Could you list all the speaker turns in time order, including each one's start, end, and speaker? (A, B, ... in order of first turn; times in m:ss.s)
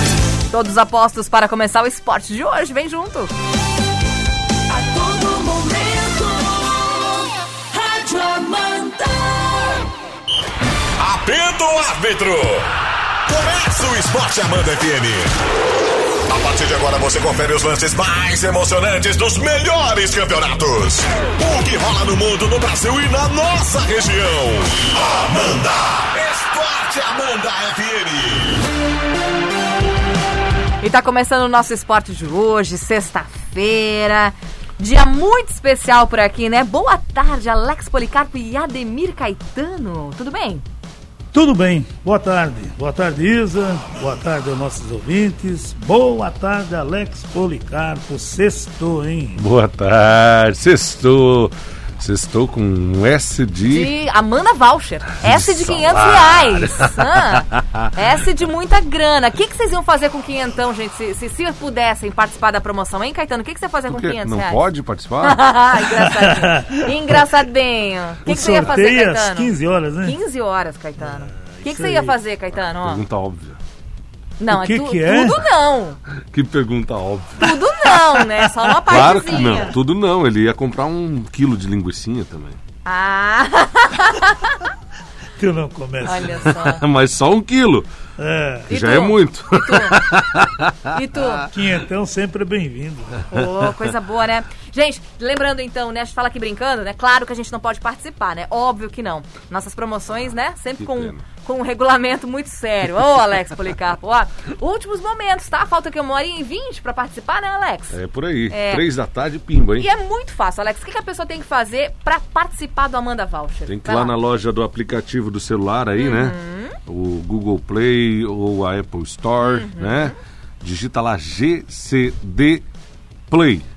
0:00.5-0:03.3 A
0:04.7-0:09.8 B
0:11.0-0:12.7 C
0:13.2-0:15.4 C
0:16.3-0:28.6 C
0:30.8-0:40.6 A
0:41.3-0:49.4 D
0:49.4-0:53.9 E
0:53.6-1:04.6 A
0:55.2-0:57.9 E
1:03.9-1:05.4 E
1:05.2-1:13.0 A
1:05.9-1:06.9 D
1:08.2-1:10.2 D
1:08.4-1:08.7 E
1:11.0-1:12.2 D
1:12.8-1:13.6 E
1:14.4-1:16.0 A
1:14.5-1:15.4 D
1:16.3-1:17.4 E
1:17.4-1:19.8 A
1:18.1-1:18.4 D
1:18.9-1:22.6 E
1:22.8-1:24.7 A
1:25.4-1:26.5 D
1:26.0-1:26.8 A
1:26.5-1:27.9 E
1:28.2-1:28.7 D
1:28.7-1:30.1 A
1:28.7-1:30.9 E
1:30.9-1:31.5 A
1:31.5-1:33.2 D
1:33.3-1:48.0 A
1:40.8-1:41.2 E
1:47.9-1:49.9 E
1:48.5-1:48.8 A
1:49.8-1:54.1 A
1:53.7-2:02.6 E
1:56.0-1:56.8 A
1:59.4-2:00.2 A
2:03.3-2:03.6 E